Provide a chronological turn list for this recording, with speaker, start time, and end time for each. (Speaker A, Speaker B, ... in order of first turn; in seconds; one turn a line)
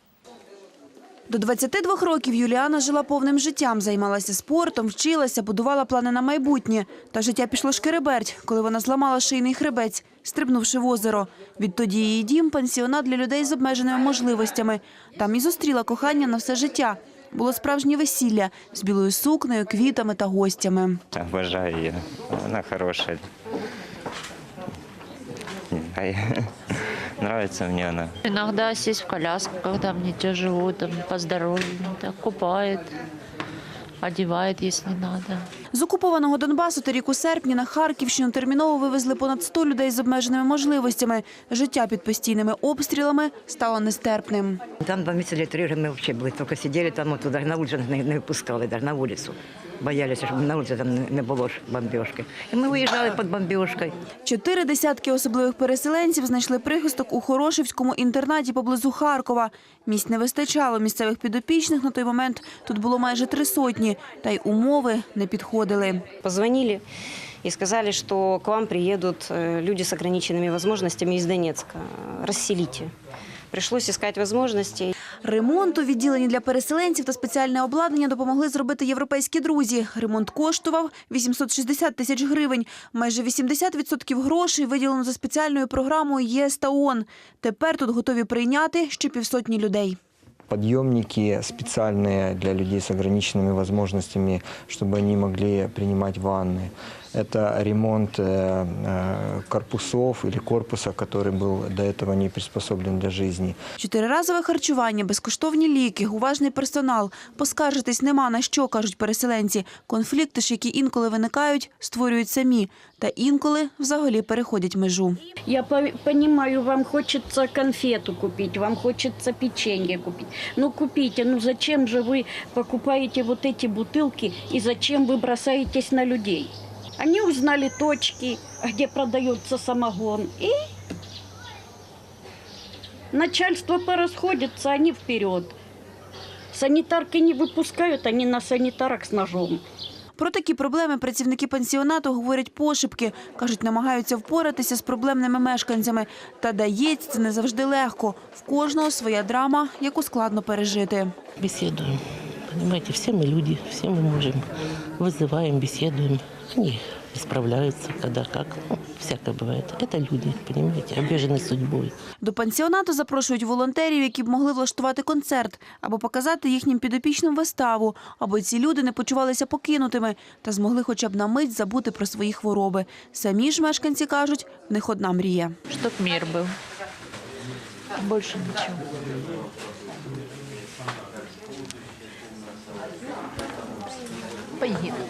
Speaker A: 1.3-21.0
Speaker B: 21.1-23.2
Speaker B: 25.7-26.5
Speaker B: 27.2-28.1
Speaker C: 28.2-32.9
Speaker C: 34.0-35.5
Speaker A: 35.7-44.6
Speaker D: 44.8-54.0
Speaker A: 54.2-66.0
Speaker E: 66.2-66.8
Speaker E: 67.4-72.9
Speaker E: 73.5-74.9
Speaker A: 75.2-90.0
Speaker F: 90.5-103.6
Speaker A: 103.8-115.2
Speaker G: 115.5-130.6
Speaker G: 133.1-135.6
Speaker G: 136.5-139.6
Speaker A: 140.2-151.1
Speaker H: 151.4-152.0
Speaker H: 152.5-154.4
Speaker H: 155.0-161.9
Speaker A: 162.2-175.6
Speaker C: 175.7-176.5
Speaker C: 178.0-178.8
Speaker C: 184.6-184.9